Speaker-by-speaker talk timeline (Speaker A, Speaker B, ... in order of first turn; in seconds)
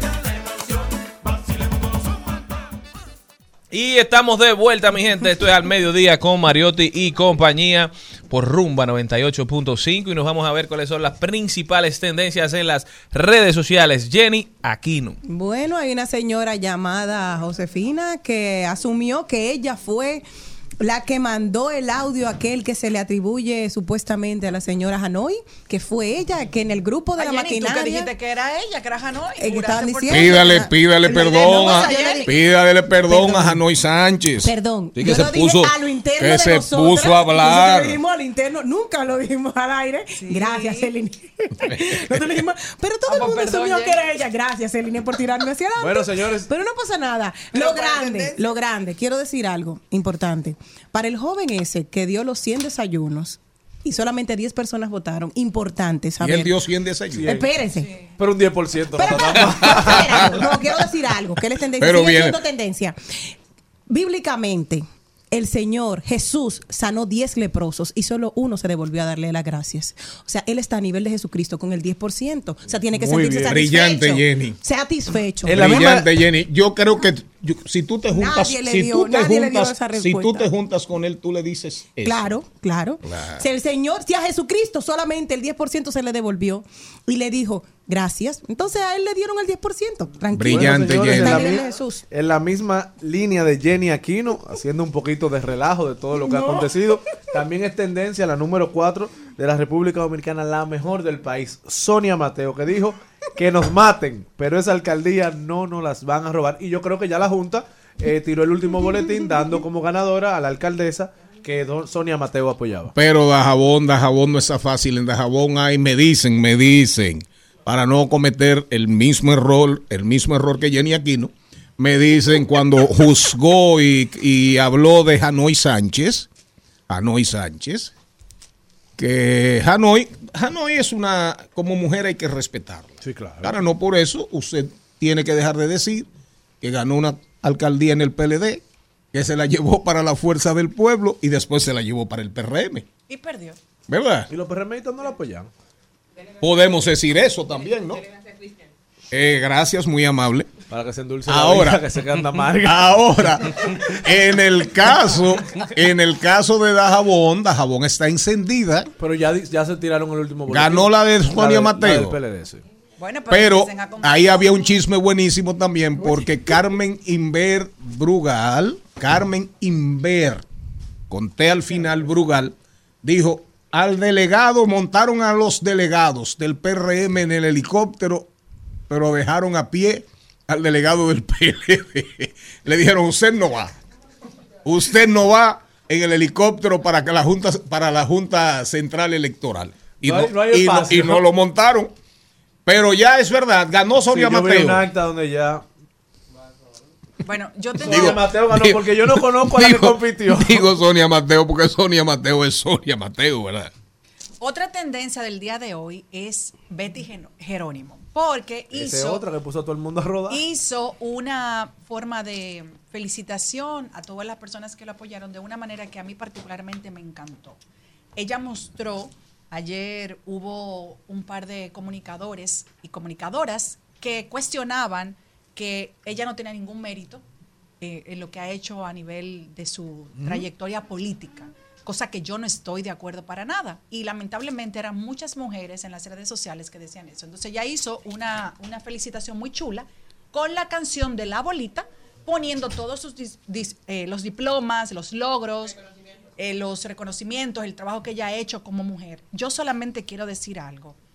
Speaker A: 3.7-15.2
Speaker B: 15.2-20.2, 20.8-28.1, 29.4-32.3, 33.1-33.6, 34.4-56.5, 57.2-57.9, 59.0-63.0, 63.9-76.1, 78.1-80.5, 82.0-92.0, 96.3-96.7
Speaker C: 27.1-32.3, 40.1-40.9, 43.1-44.0, 47.8-48.4, 91.5-91.8, 143.1-143.6, 163.0-164.8, 197.2-198.3, 204.4-209.2, 210.3-217.6, 218.2-227.2, 227.8-245.8, 246.4-250.9
Speaker D: 30.1-38.0, 41.7-42.1, 56.2-57.3, 59.4-60.5, 61.8-62.4, 73.5-74.6, 75.4-82.4, 83.0-83.5, 90.3-91.6, 112.9-126.3, 126.9-127.9, 129.0-136.1, 136.6-142.9, 143.9-144.3, 146.4-148.0, 149.1-150.5, 151.2-151.8, 152.6-158.9, 160.5-162.2, 163.3-170.4, 171.1-178.3, 178.9-183.7, 184.6-191.9, 192.7-194.9, 197.8-203.7, 230.2-230.5
Speaker E: 45.8-46.5, 57.1-57.5, 58.2-60.4, 73.0-73.5, 75.5-76.0, 90.4-112.9, 133.0-133.6, 144.3-145.5, 150.7-153.0, 159.0-162.6, 190.0-191.2, 194.1-195.6, 197.8-200.7, 208.7-210.4